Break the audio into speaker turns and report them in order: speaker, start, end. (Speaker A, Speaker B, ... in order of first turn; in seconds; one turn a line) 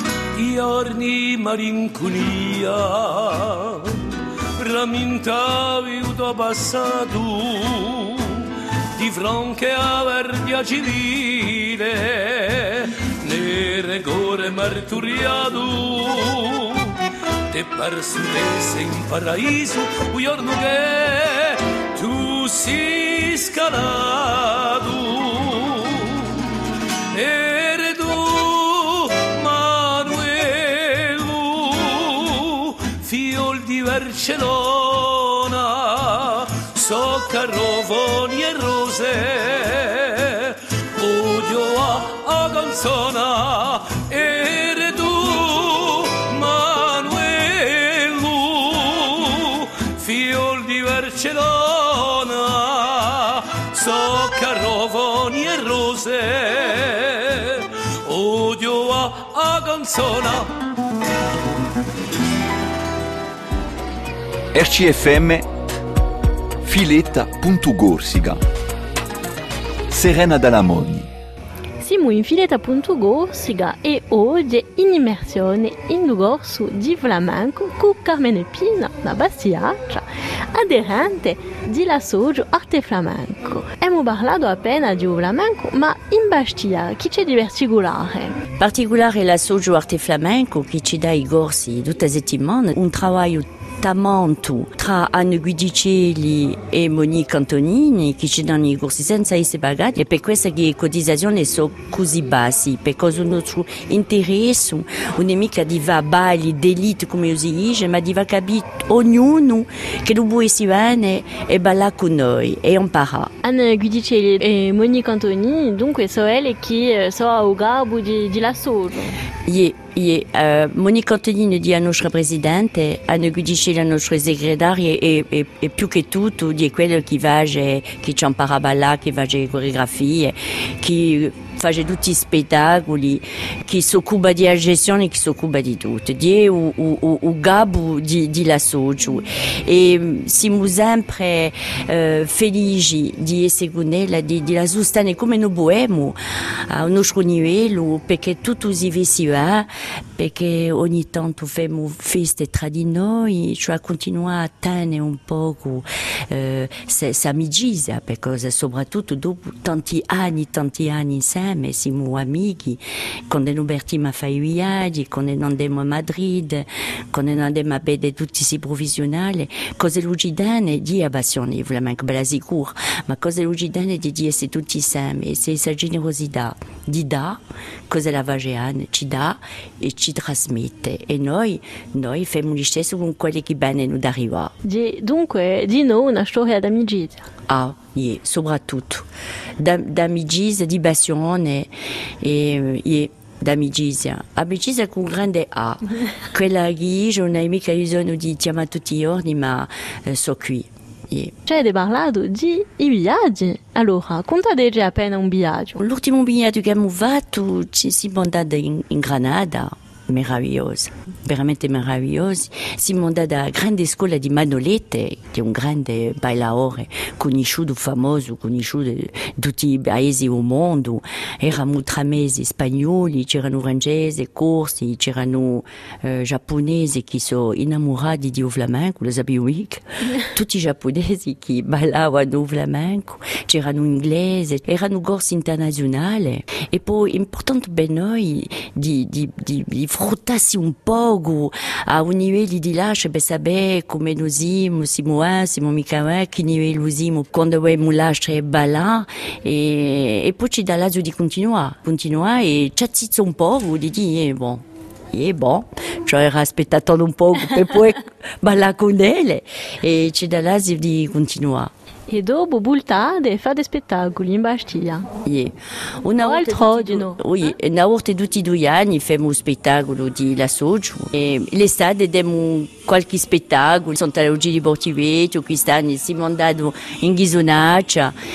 Speaker A: 0.3-26.5
Speaker A: 27.1-60.5
Speaker B: 64.5-65.4
Speaker B: 66.6-68.4
Speaker B: 69.9-71.1
Speaker C: 71.8-88.4
Speaker D: 88.6-113.3
Speaker C: 113.4-119.2
Speaker D: 119.5-146.2
Speaker D: 146.7-177.4
Speaker D: 177.9-184.5
Speaker C: 184.6-187.2
Speaker D: 187.5-189.1
Speaker D: 189.6-191.7
Speaker D: 192.2-201.3
Speaker C: 201.5-205.8
Speaker D: 205.8-254.6
Speaker D: 255.1-261.7
Speaker C: 262.1-265.1
Speaker D: 265.2-278.1
Speaker C: 266.2-267.2